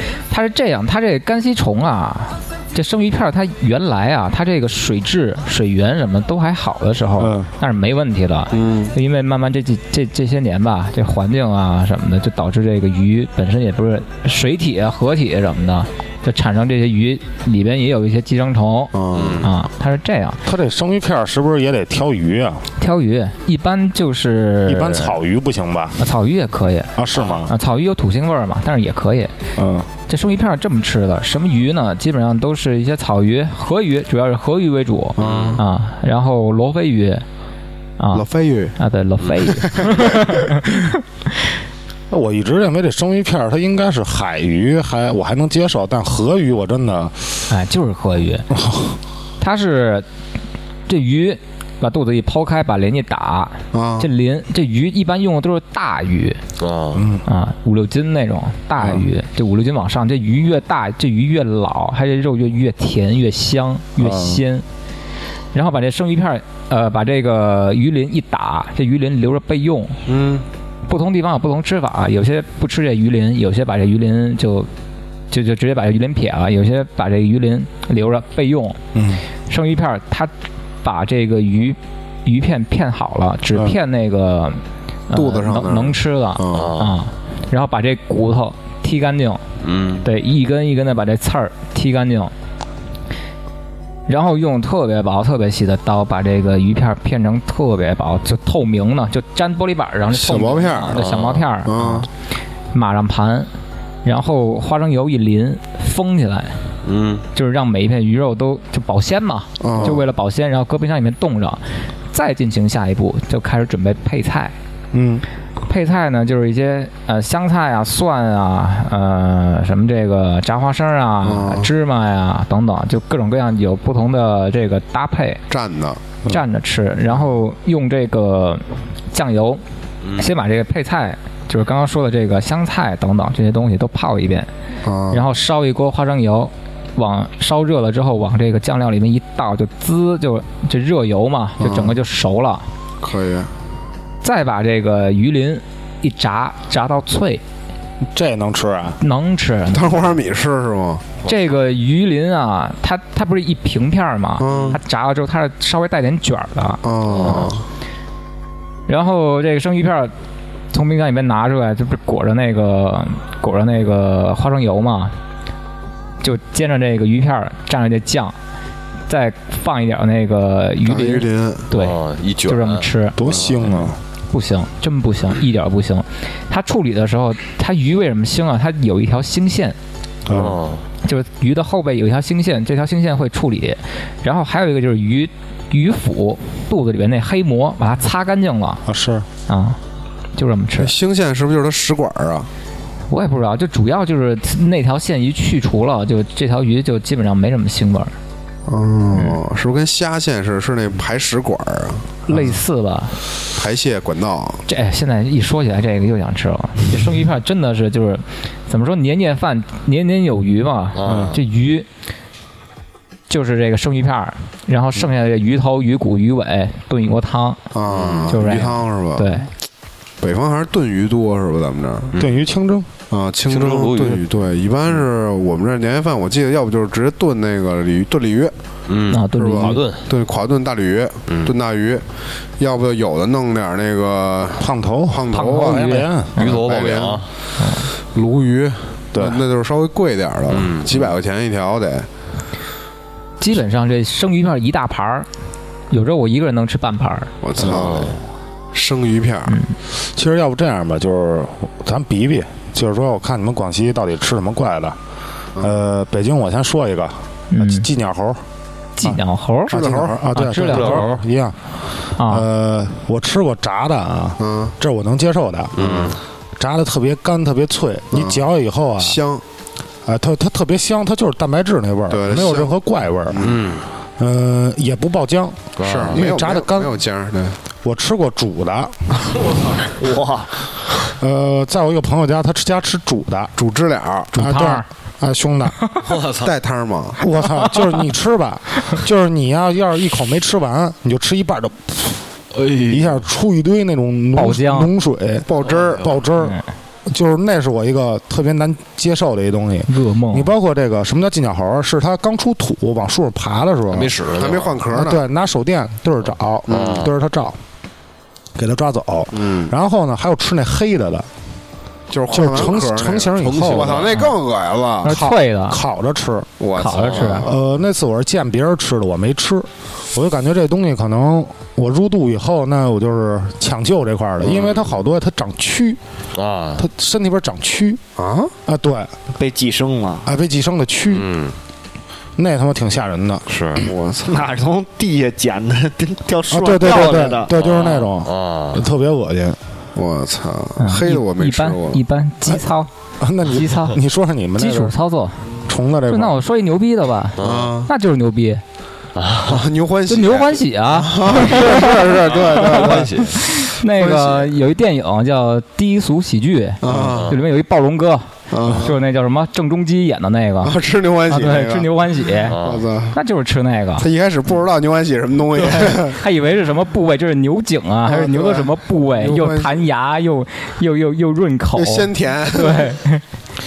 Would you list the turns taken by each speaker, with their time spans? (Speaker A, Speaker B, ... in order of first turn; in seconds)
Speaker A: 0.3-20.4, 22.8-25.1, 26.0-26.9, 27.5-29.3, 30.1-37.2, 38.0-41.0, 47.5-48.5, 49.4-50.1, 50.9-56.4, 57.2-64.7, 65.5-70.0, 70.9-74.7, 75.3-78.8, 79.5-80.3, 80.8-89.4, 90.0-92.3, 94.1-102.1, 102.7-103.5, 104.0-106.7, 107.3-114.5, 115.6-125.4, 126.3-129.6, 130.2-134.5, 135.1-142.7, 144.2-147.4, 149.0-150.0, 151.2-156.8, 158.9-160.1, 160.7-165.2, 166.2-168.4, 169.1-179.8, 181.0-188.8, 189.5-189.8, 190.3-190.9, 193.1-198.1, 202.3-203.2, 204.7-211.9, 213.3-217.6, 218.3-219.5, 229.1-229.8, 235.3-236.6, 237.6-237.9, 243.4-245.3, 245.9-247.3, 249.5-249.8, 257.5-257.9, 259.0-261.1, 262.2-262.5, 284.3-284.9, 294.4-294.9, 299.9-300.5, 315.0-315.8, 316.8-317.5, 340.8-342.9, 343.4-344.0, 344.6-345.4, 346.1-348.6, 350.1-360.8, 361.3-362.6, 363.1-364.1, 365.6-373.2
Speaker B: 7.2-7.5, 20.4-22.7, 24.7-26.0, 27.0-27.5, 29.6-29.9, 42.1-47.5, 48.5-49.0, 57.0-57.2, 64.0-64.4, 78.9-79.2, 114.9-115.2, 148.1-149.0, 173.2-174.0, 180.3-180.6, 188.9-189.3, 211.1-211.4, 222.2-222.9, 234.6-236.3, 239.1-239.4, 250.0-255.0, 255.6-258.4, 259.0-261.6, 262.2-265.8, 266.6-269.2, 270.1-273.4, 274.2-277.0, 277.8-279.0, 281.2-283.5, 284.4-285.8, 287.2-292.2, 292.9-304.1, 304.9-307.6, 308.6-311.3, 312.3-314.1, 315.0-316.5, 317.4-326.0, 326.8-328.0, 328.7-329.1, 330.3-331.3, 332.4-333.5, 336.5-339.6, 343.2-344.9, 345.7-346.4
Speaker C: 8.5-8.9, 18.9-19.5, 35.2-35.6, 38.1-38.8, 39.6-40.4, 53.7-54.1, 70.1-70.5, 85.1-86.8, 100.1-101.0, 101.6-102.1, 109.6-110.0, 121.2-121.7, 125.5-126.0, 134.8-135.2, 141.6-142.0, 143.0-143.5, 149.7-151.1, 154.4-154.8, 156.8-157.7, 170.9-171.7, 190.8-192.5, 198.7-202.5, 203.5-204.6, 217.7-219.3, 220.2-222.1, 223.1-228.5, 229.3-232.0, 232.6-237.3, 238.1-242.1, 247.4-248.2, 248.7-249.6, 259.7-260.2, 264.4-264.7, 265.8-266.2, 268.1-268.4, 269.0-269.4, 272.1-272.8, 273.3-273.6, 275.8-277.6, 283.6-284.3, 286.4-287.2, 295.5-296.2, 304.4-305.2, 306.7-307.1, 309.3-309.7, 312.1-315.2, 316.6-317.6, 328.2-328.5, 333.8-334.5, 339.9-342.0, 347.4-347.9, 349.5-354.5, 356.8-357.4, 358.5-359.0, 360.6-361.9, 362.5-363.2, 364.0-366.2, 368.1-369.8, 371.7-372.9
Speaker D: 19.1-19.5, 27.1-27.4, 35.2-35.6, 56.6-57.1, 86.5-87.0, 89.6-90.0, 101.0-101.5, 106.8-107.2, 130.0-130.3, 154.5-154.8, 157.1-157.5, 171.7-173.5, 180.3-180.8, 211.0-211.4, 217.9-218.3, 223.5-224.2, 228.9-230.1, 231.3-231.5, 236.4-237.3, 240.5-241.1, 247.6-248.2, 260.6-261.2, 265.8-266.2, 273.4-273.9, 275.8-276.2, 286.0-286.5, 292.5-293.1, 295.6-296.1, 303.9-304.8, 306.7-307.1, 313.4-314.2, 316.9-317.4, 324.5-324.9, 326.3-326.9, 331.1-331.6, 333.5-333.9, 337.6-338.8, 347.4-347.8, 349.2-349.6, 351.8-353.4, 356.9-357.4, 362.5-362.9
Speaker E: 280.0-280.6, 329.4-330.3, 334.3-337.6